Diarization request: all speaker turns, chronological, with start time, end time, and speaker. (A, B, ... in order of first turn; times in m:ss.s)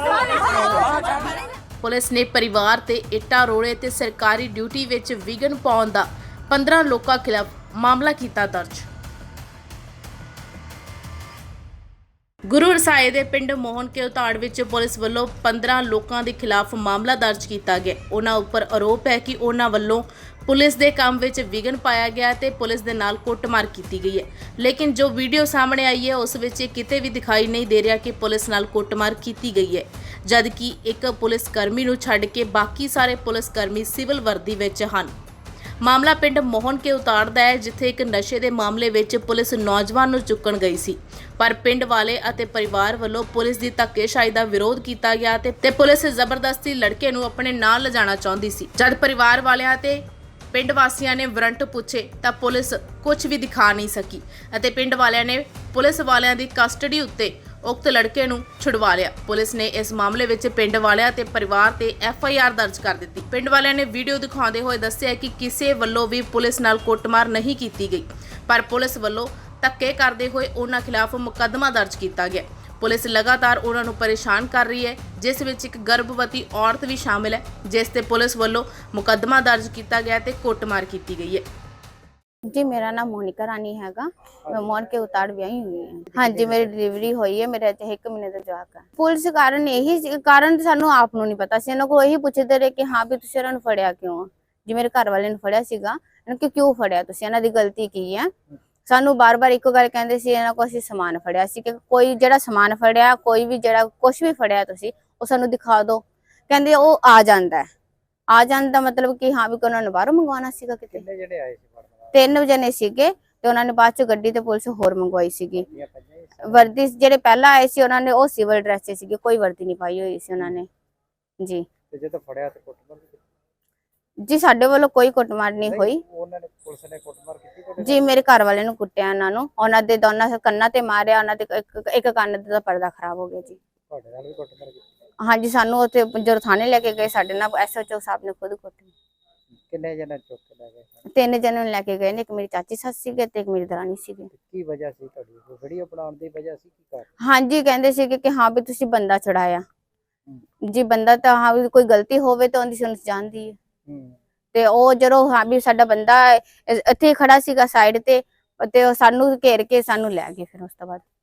0:01.8-0:08.9 A
0:12.5-0:35.1 A
0:35.8-1:21.4 A
1:22.5-1:38.3 B
1:24.4-1:24.7 C
1:26.1-1:26.8 C
1:38.9-1:47.7 B
1:48.3-1:51.0 B
1:50.9-1:52.2 C
1:52.1-1:55.6 B
1:55.5-1:56.7 C
1:56.5-2:00.7 B
2:01.9-2:03.2 C
2:04.3-2:06.0 B
2:05.6-2:08.2 C
2:07.8-2:13.6 B
2:13.9-2:14.9 C
2:15.2-2:18.9 B
2:19.7-2:21.0 C
2:21.2-2:24.3 B
2:24.3-2:27.1 C
2:27.2-2:29.6 B
2:30.7-2:33.6 B
2:33.9-2:34.2 C
2:34.5-2:41.0 B